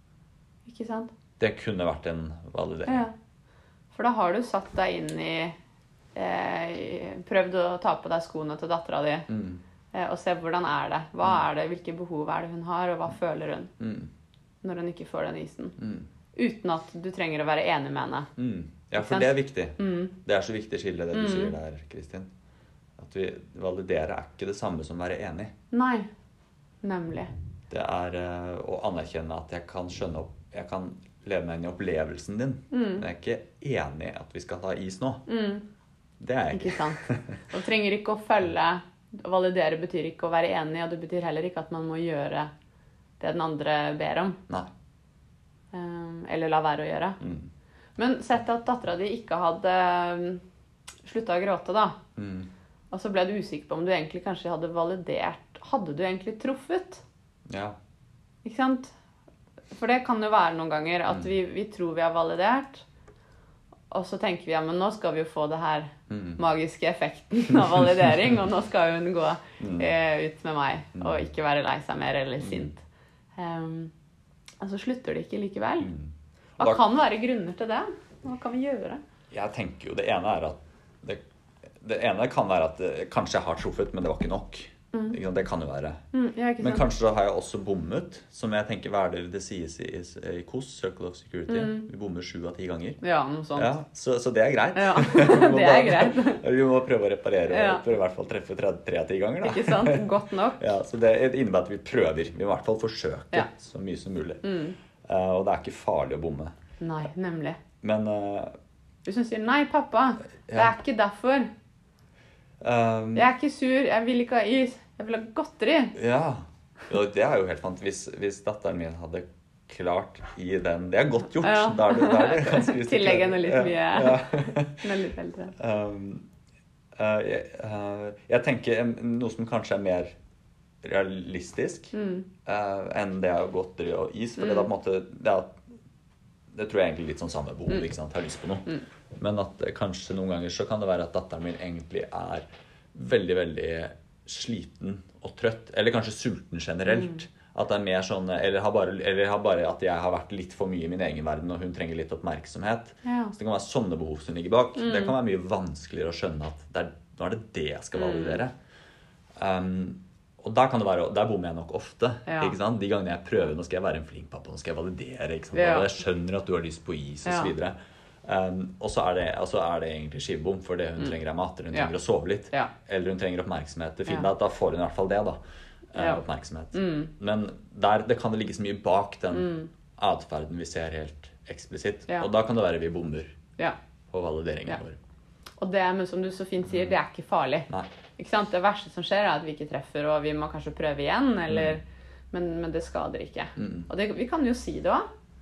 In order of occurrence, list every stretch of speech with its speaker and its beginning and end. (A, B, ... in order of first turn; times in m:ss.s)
0:00.6-0:01.1 A
0:01.4-0:03.0 B
0:02.8-0:03.1 A
0:03.9-0:05.6 A
0:06.1-0:09.3 A
0:09.3-0:09.6 B
0:09.9-0:13.7 A
0:13.8-0:14.1 B
0:14.6-0:15.8 A
0:15.8-0:16.1 B
0:16.4-0:18.3 A
0:18.4-0:22.3 B
0:19.0-0:20.1 A
0:21.1-0:21.5 A
0:23.0-0:25.5 B
0:25.7-0:26.1 A
0:26.8-0:27.3 A
0:27.7-0:35.2 B
0:32.7-0:33.0 A
0:35.3-0:35.6 A
0:36.2-0:37.4 B
0:36.5-0:42.5 A
0:43.2-0:44.4 A
0:45.7-0:47.2 A
0:47.2-0:47.5 B
0:48.0-0:50.4 A
0:51.0-0:52.0 A
0:52.2-0:52.5 B
0:52.9-0:57.0 A
0:57.5-0:57.8 B
0:58.4-0:58.9 A
0:59.7-1:02.8 A
1:03.9-1:12.8 A
1:06.1-1:06.4 B
1:09.6-1:09.9 B
1:11.0-1:11.3 B
1:12.4-1:12.7 B
1:13.4-1:13.9 A
1:14.6-1:15.9 A
1:15.8-1:16.8 B
1:16.6-1:19.0 A
1:19.3-1:21.2 B
1:21.8-1:26.0 B
1:26.1-1:26.8 A
1:26.6-1:33.0 B
1:31.5-1:31.8 A
1:33.0-1:33.7 A
1:33.6-1:44.4 B
1:34.7-1:36.4 A
1:37.5-1:37.8 A
1:39.4-1:40.6 A
1:44.4-1:44.7 A
1:45.0-1:46.5 B
1:46.8-1:47.6 A
1:47.8-1:48.5 B
1:49.0-1:51.5 A
1:50.5-1:50.7 B
1:52.6-1:53.3 B
1:53.1-1:56.0 A
1:55.9-2:04.8 B
2:01.4-2:05.5 A
2:05.6-2:06.2 B
2:07.0-2:10.1 B
2:10.8-2:11.9 B
2:11.9-2:12.3 A
2:12.4-2:15.6 B
2:14.4-2:14.6 A
2:16.5-2:38.5 B
2:33.0-2:33.3 A
2:34.8-2:35.1 A
2:38.0-2:38.4 A
2:39.4-2:55.4 B
2:42.2-2:42.6 A
2:45.5-2:45.9 A
2:47.2-2:47.5 A
2:55.9-3:03.4 B
2:56.0-2:57.1 A
2:59.3-2:59.7 A
3:04.1-3:05.0 B
3:05.6-3:15.1 A
3:06.7-3:06.9 B
3:11.5-3:11.8 B
3:13.6-3:13.9 B